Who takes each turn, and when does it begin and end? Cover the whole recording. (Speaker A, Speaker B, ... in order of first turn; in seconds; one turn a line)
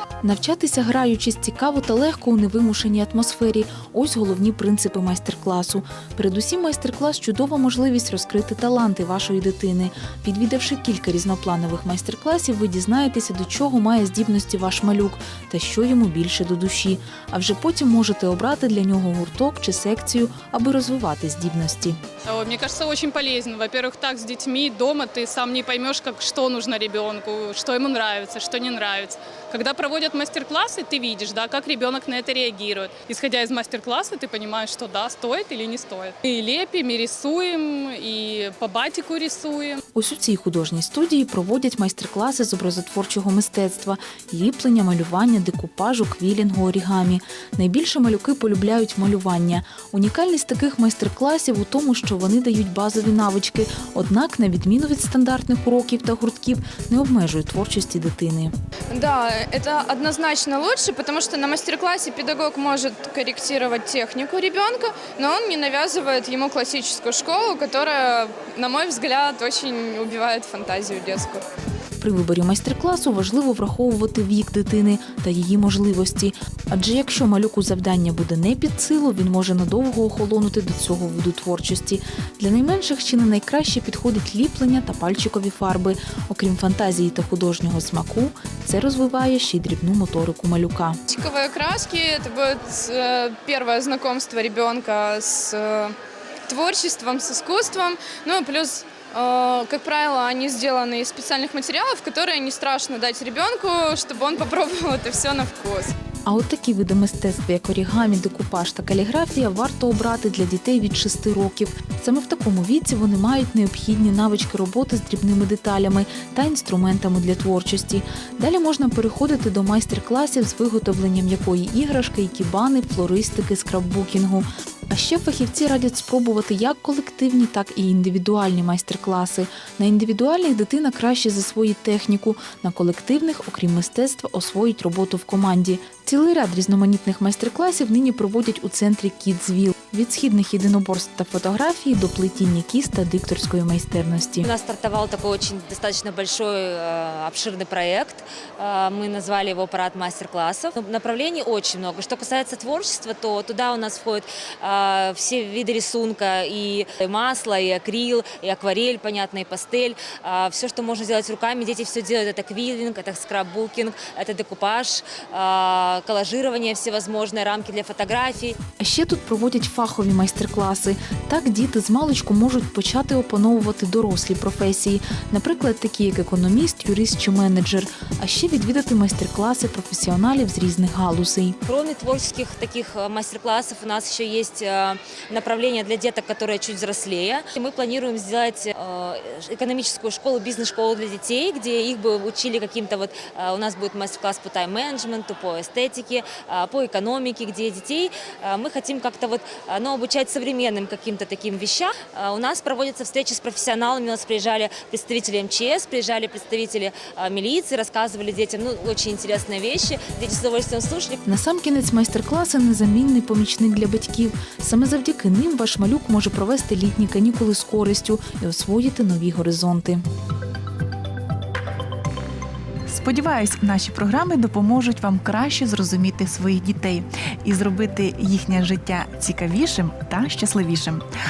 Speaker A: 0.2-22.0
Speaker B: 22.3-39.8
Speaker A: 40.0-58.5
Speaker C: 58.9-71.4
Speaker A: 72.0-91.0
Speaker C: 91.1-96.0
Speaker C: 96.5-105.9
Speaker A: 106.3-144.5
Speaker D: 144.4-168.6
Speaker A: 168.8-181.6
Speaker D: 181.7-211.2
Speaker A: 211.2-220.0
Speaker E: 222.9-231.0